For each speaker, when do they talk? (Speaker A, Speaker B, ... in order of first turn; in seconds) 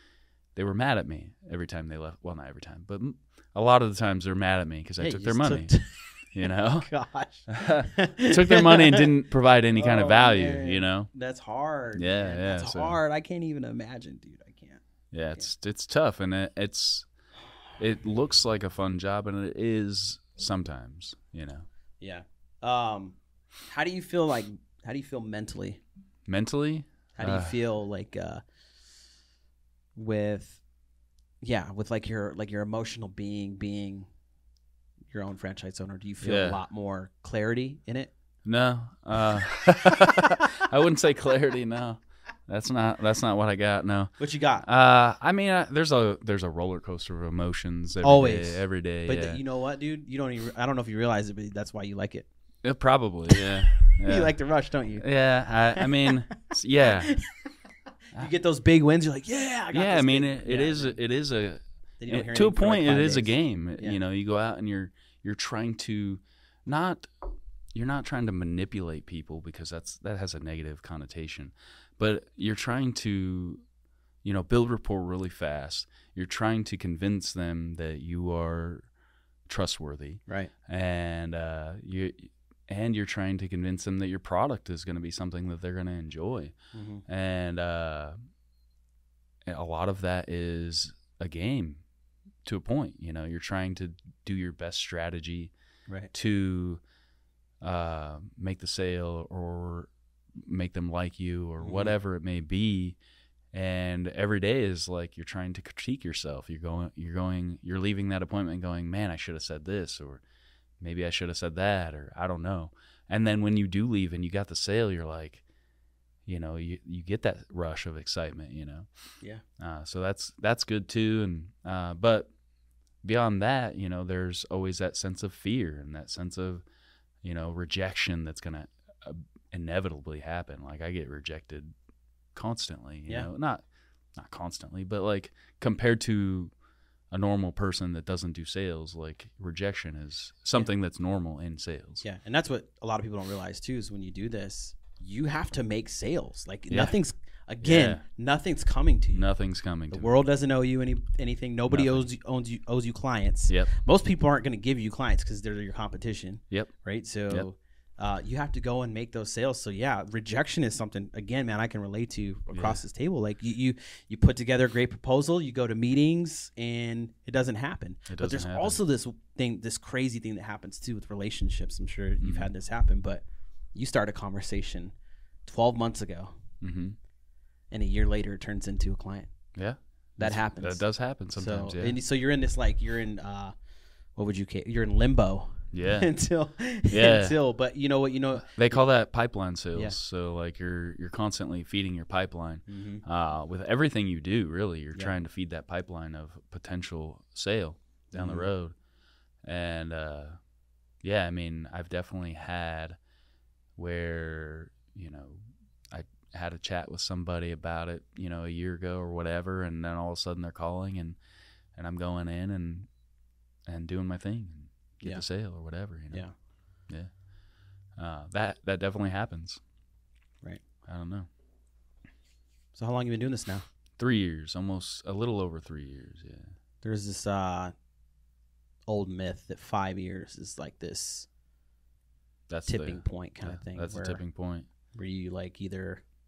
Speaker A: 0.5-5.7, 6.3-6.9, 7.5-11.1, 11.9-13.0, 15.1-17.1, 17.8-21.7, 26.3-27.6, 36.2-36.6, 38.4-49.4, 52.6-54.3, 55.0-57.1, 59.7-67.1, 67.7-73.6, 74.2-78.9, 79.5-86.5, 87.1-88.2, 89.5-91.8, 92.4-95.5, 96.1-96.8, 97.6-103.0, 103.5-110.2, 110.8-115.4, 116.2-118.9, 119.6-122.3, 123.0-126.6, 127.2-131.7, 132.3-133.6, 134.1-136.5, 137.1-142.0, 146.7-146.9, 147.6-148.0, 149.1-150.1, 151.7-152.1, 162.5-162.8, 168.1-168.8, 172.2-172.5, 176.6-176.9, 179.5-182.0, 185.7-186.1, 186.9-187.4, 188.4-198.8, 199.4-200.4, 201.0-203.0, 203.8-211.2, 211.7-212.9, 213.7-216.2, 216.8-217.1, 217.9-219.6, 220.8-221.3, 224.0-226.5, 232.5-234.7
Speaker B: 5.0-6.2, 6.8-9.1, 9.8-14.8, 22.0-25.8, 27.1-28.4, 29.9-30.6, 31.4-34.1, 35.1-38.1, 44.2-44.6, 48.0-52.3, 53.3-55.0, 55.8-56.1, 58.1-61.0, 62.0-64.0, 86.7-87.0, 101.6-101.9, 142.0-149.3, 149.9-174.9, 175.4-176.3, 177.7-179.3, 180.2-183.5, 184.1-188.8, 192.7-193.0, 198.1-198.5, 222.7-223.6, 226.8-227.7, 228.9-231.3, 232.7-234.2, 234.9-236.0